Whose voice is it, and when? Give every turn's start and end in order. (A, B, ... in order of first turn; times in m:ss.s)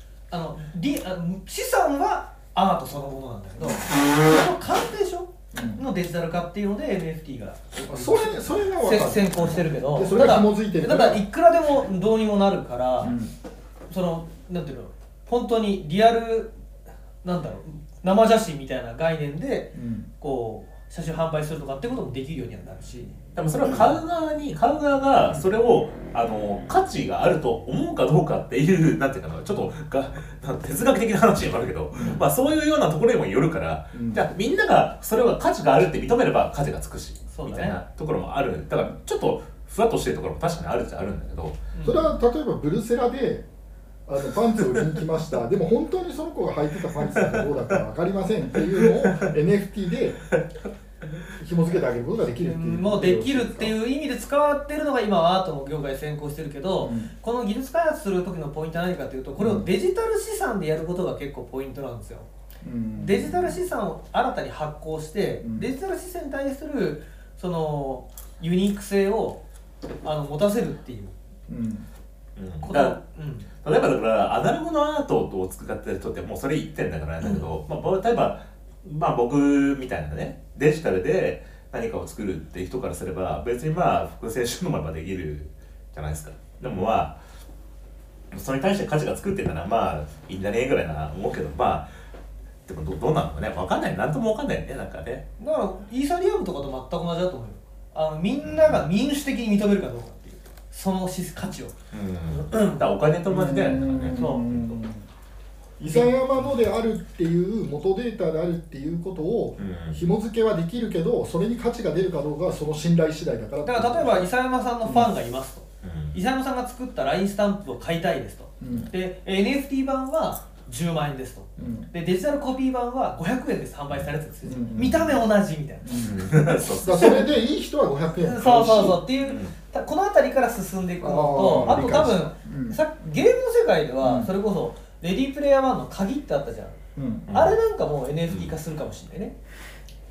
0:00.3-0:13.2 A
0:05.5-0:05.8 B
0:07.8-0:11.2 B
0:13.0-0:13.3 B
0:13.9-0:16.5 A
0:17.2-0:23.9 A
0:19.8-0:20.1 B
0:23.4-0:41.6 C
0:31.9-0:32.2 B
0:33.9-0:34.3 B
0:37.3-0:37.8 A
0:41.7-0:42.2 A
0:41.8-0:43.5 B
0:44.1-0:50.2 B
0:48.7-0:49.3 C
0:51.4-0:53.8 B
0:52.4-1:02.3 A
0:56.8-0:57.1 B
0:59.4-0:59.7 B
1:02.6-1:03.6 B
1:03.0-1:09.4 A
1:05.4-1:05.7 B
1:10.0-1:11.2 A
1:11.5-1:11.9 B
1:12.4-1:13.0 C
1:12.6-1:13.5 A
1:13.6-1:27.2 C
1:28.3-1:31.9 C
1:32.7-1:35.3 C
1:35.4-1:41.7 A
1:38.4-1:38.8 C
1:41.9-1:44.8 C
1:42.3-1:42.8 A
1:43.3-1:45.1 B
1:44.1-1:44.5 A
1:45.8-1:54.3 B
1:45.9-1:46.2 A
1:49.6-1:50.0 C
1:53.6-2:06.1 A
1:55.8-1:56.2 C
1:58.6-1:58.9 B
2:01.6-2:01.9 B
2:04.4-2:05.2 B
2:05.8-2:09.0 B
2:06.0-2:07.3 C
2:08.2-2:16.8 A
2:09.2-2:09.5 C
2:11.0-2:12.8 B
2:11.5-2:11.8 C
2:14.0-2:14.3 B
2:17.0-2:17.3 B
2:17.3-2:17.6 C
2:17.3-2:19.4 A
2:18.3-2:18.5 C